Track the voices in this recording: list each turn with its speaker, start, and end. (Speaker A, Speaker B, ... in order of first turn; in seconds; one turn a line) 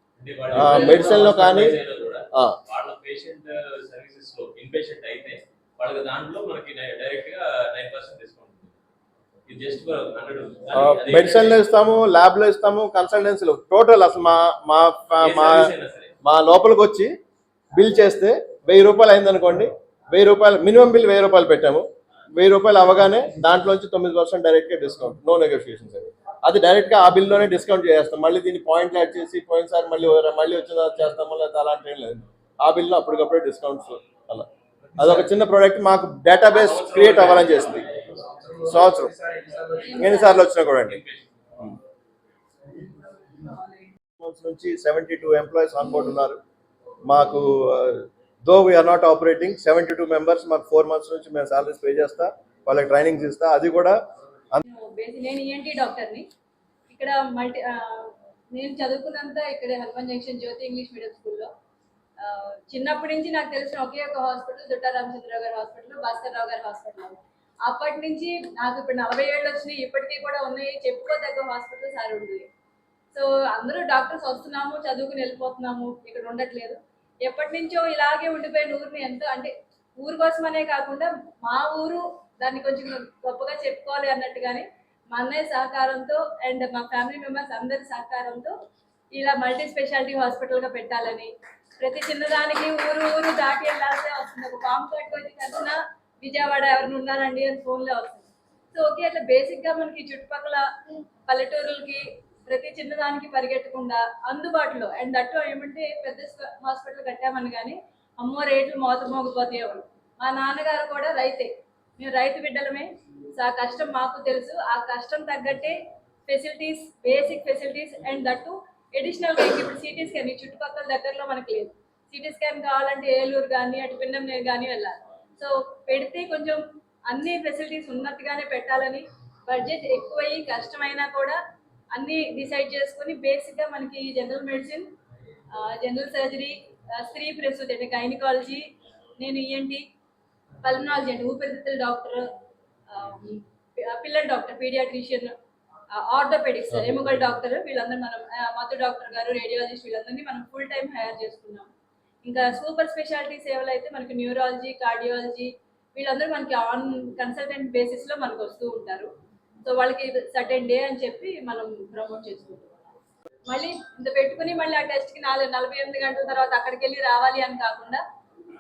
Speaker A: 0.2-8.7
Speaker B: 0.5-1.8
Speaker B: 2.3-2.6
Speaker A: 9.5-11.6
Speaker B: 10.7-15.7
Speaker A: 15.2-16.1
Speaker B: 16.2-17.1
Speaker B: 17.7-21.9
Speaker B: 22.4-34.5
Speaker B: 35.0-37.9
Speaker A: 36.5-38.0
Speaker B: 38.6-39.1
Speaker C: 39.8-40.4
Speaker B: 39.9-41.0
Speaker A: 40.9-41.3
Speaker B: 44.2-46.4
Speaker B: 47.1-54.0
Speaker C: 54.6-56.3
Speaker C: 56.9-61.5
Speaker C: 62.2-72.5
Speaker C: 73.1-88.5
Speaker C: 89.1-100.7
Speaker C: 101.3-131.4
Speaker C: 131.9-134.9
Speaker C: 135.5-138.7
Speaker C: 139.2-139.8
Speaker C: 140.6-142.3
Speaker C: 142.9-145.3
Speaker C: 145.9-151.7
Speaker C: 152.2-159.1
Speaker C: 159.7-162.9
Speaker C: 163.5-168.0